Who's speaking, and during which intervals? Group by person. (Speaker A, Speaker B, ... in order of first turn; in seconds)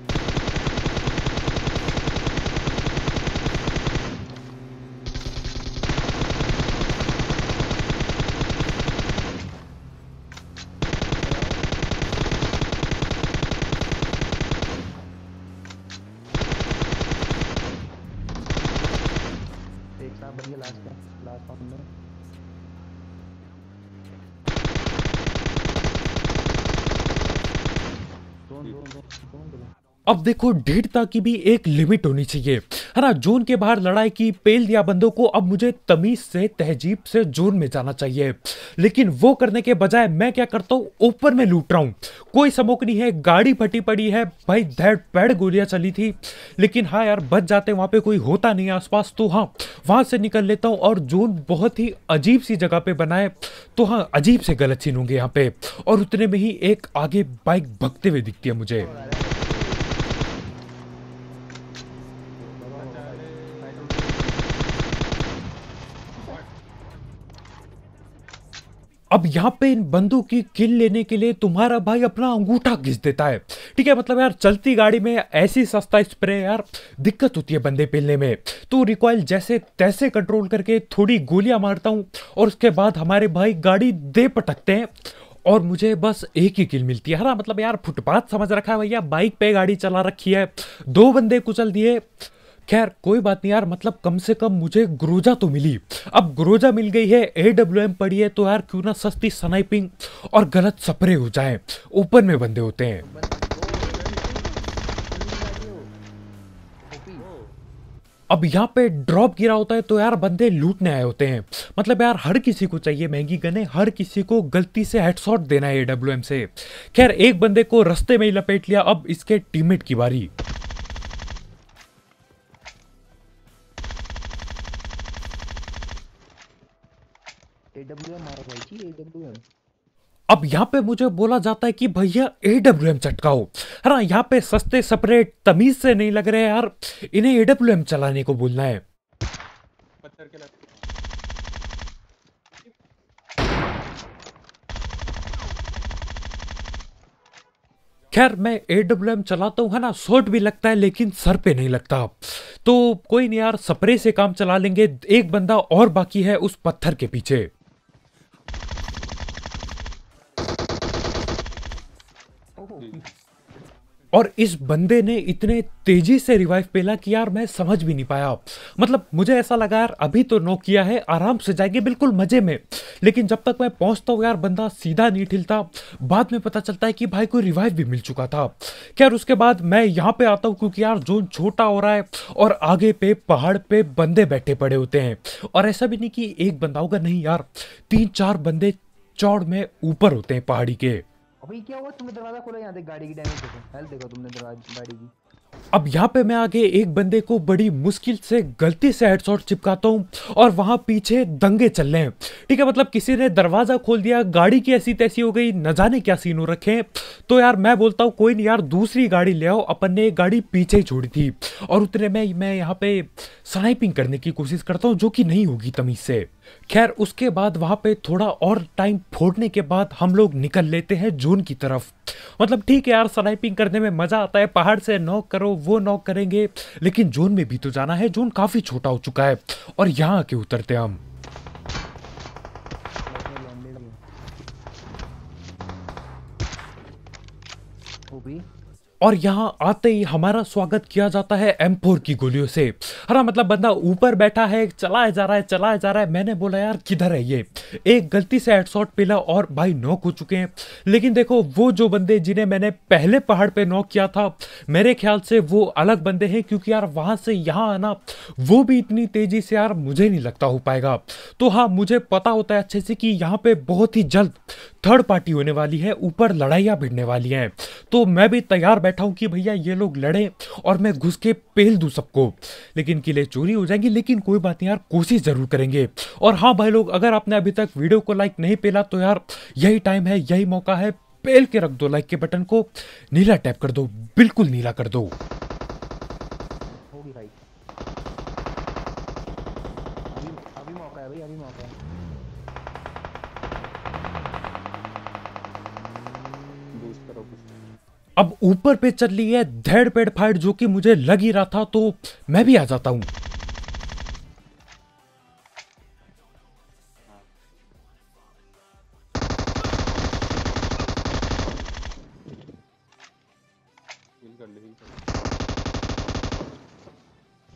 Speaker A: 11.2-11.7, 20.0-21.9, 28.5-29.7, 58.8-60.0, 62.5-64.6, 103.0-105.9, 106.9-107.3, 127.8-129.4, 162.6-163.0, 191.4-195.1, 233.1-234.0, 238.1-238.4, 286.9-287.4, 290.1-291.8
Speaker B: 30.1-58.9, 69.1-103.0, 108.3-120.3, 130.3-138.8, 148.1-157.5, 164.1-191.0, 195.7-231.0, 239.0-285.1, 298.2-303.1
Speaker C: 62.3-64.0, 66.2-66.5, 103.6-104.6, 107.2-107.5, 140.0-140.9, 296.8-297.5, 314.2-315.0